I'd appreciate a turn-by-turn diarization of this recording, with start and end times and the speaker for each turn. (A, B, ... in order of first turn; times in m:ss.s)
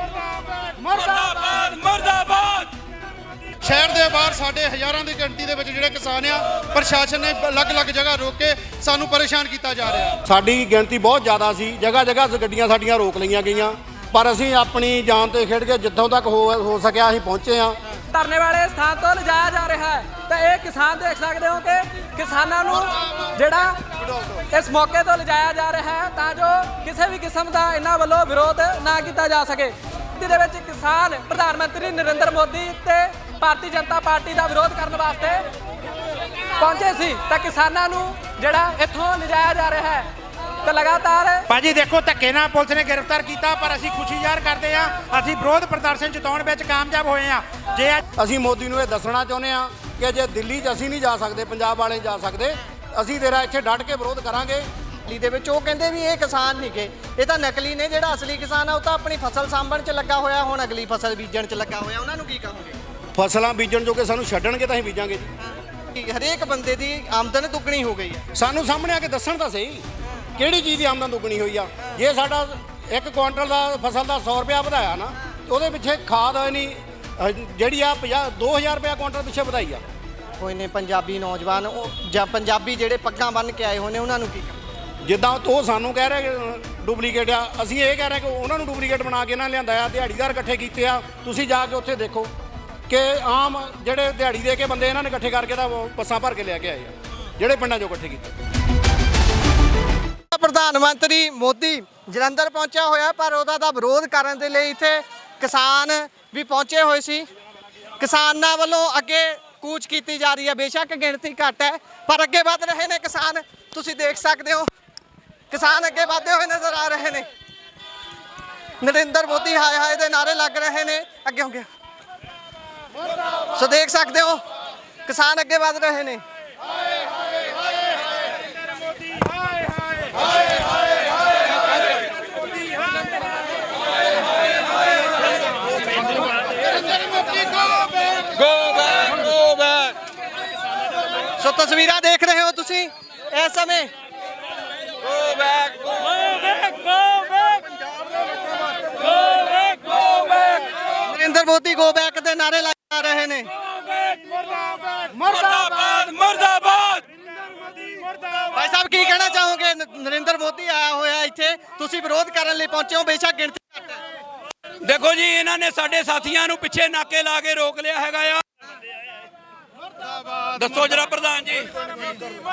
0:01.0-0:02.7 A
0:03.6-0:10.2 B
0:10.2-0:17.8 C
0:18.1-0:35.5 D
0:36.6-0:40.1 D
0:40.6-0:41.5 D
0:41.5-0:48.0 E
0:48.2-0:54.7 C
0:55.0-1:02.8 F
1:03.2-1:05.3 C
1:05.4-1:08.2 F
1:08.3-1:09.8 C
1:10.4-1:19.8 C
1:20.4-1:24.6 F
1:25.0-1:32.3 C
1:32.9-1:38.3 C
1:40.3-1:47.3 F
1:48.0-1:54.7 F
1:55.5-1:57.3 F
1:58.8-2:01.7 F
2:03.5-2:04.4 F
2:05.1-2:06.2 F
2:18.4-2:19.9 A
2:21.4-2:23.9 F
2:25.1-2:26.2 A
2:31.0-2:33.5 F
2:35.2-2:37.1 A
2:38.5-2:44.0 F
2:44.8-2:48.4 A
2:50.6-2:51.7 A